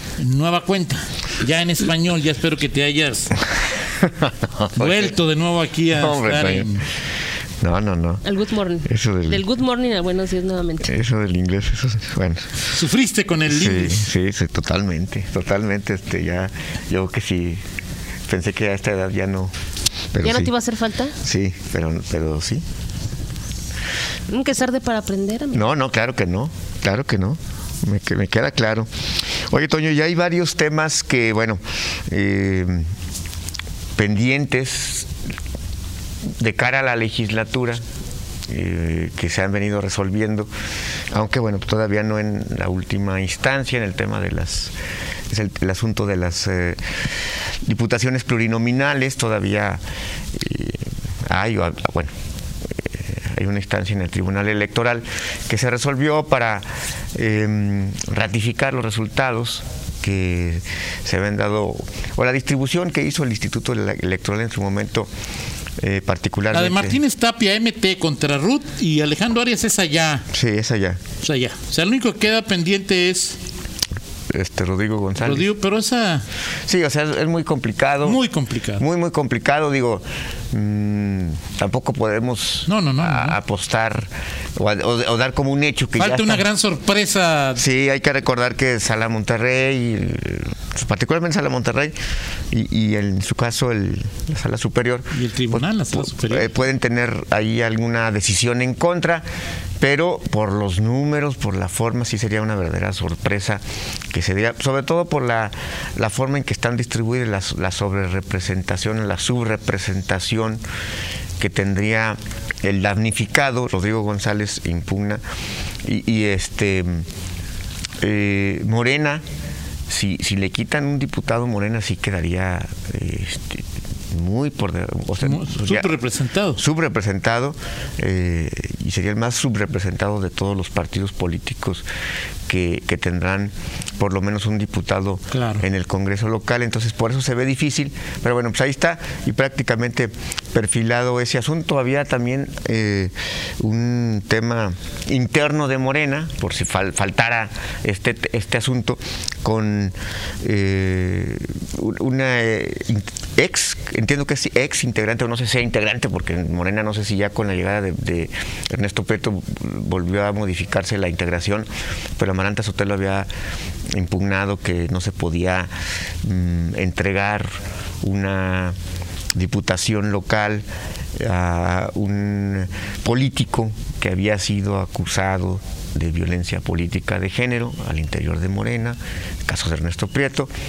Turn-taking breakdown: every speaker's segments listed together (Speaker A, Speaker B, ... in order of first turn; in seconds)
Speaker A: 0.2-3.4, 4.8-6.8, 12.7-14.1, 66.5-70.3, 71.2-73.4, 75.2-76.3, 78.0-78.8, 82.7-83.4, 86.0-87.6, 95.1-96.5, 125.2-126.6, 135.3-135.7
Speaker B: 3.8-5.1, 5.9-6.8, 7.6-8.2, 8.8-9.5, 10.8-12.5, 13.5-17.6, 18.3-19.5, 20.1-20.5, 21.2-22.6, 25.5-28.9, 29.5-32.9, 34.0-35.1, 36.4-37.8, 38.5-40.5, 41.1-44.7, 45.3-46.8, 47.6-49.8, 50.3-52.1, 52.7-65.1, 65.8-67.0, 70.3-71.0, 74.3-75.5, 76.7-78.2, 78.8-86.5, 87.6-92.0, 92.5-99.2, 99.8-110.6, 111.4-115.2, 115.8-117.1, 118.0-119.2, 119.9-125.9, 126.6-131.8, 132.5-163.3, 163.9-167.5, 168.0-168.8, 169.3-170.6, 171.2-180.5
Speaker C: 8.2-10.9, 20.2-21.1, 24.3-25.6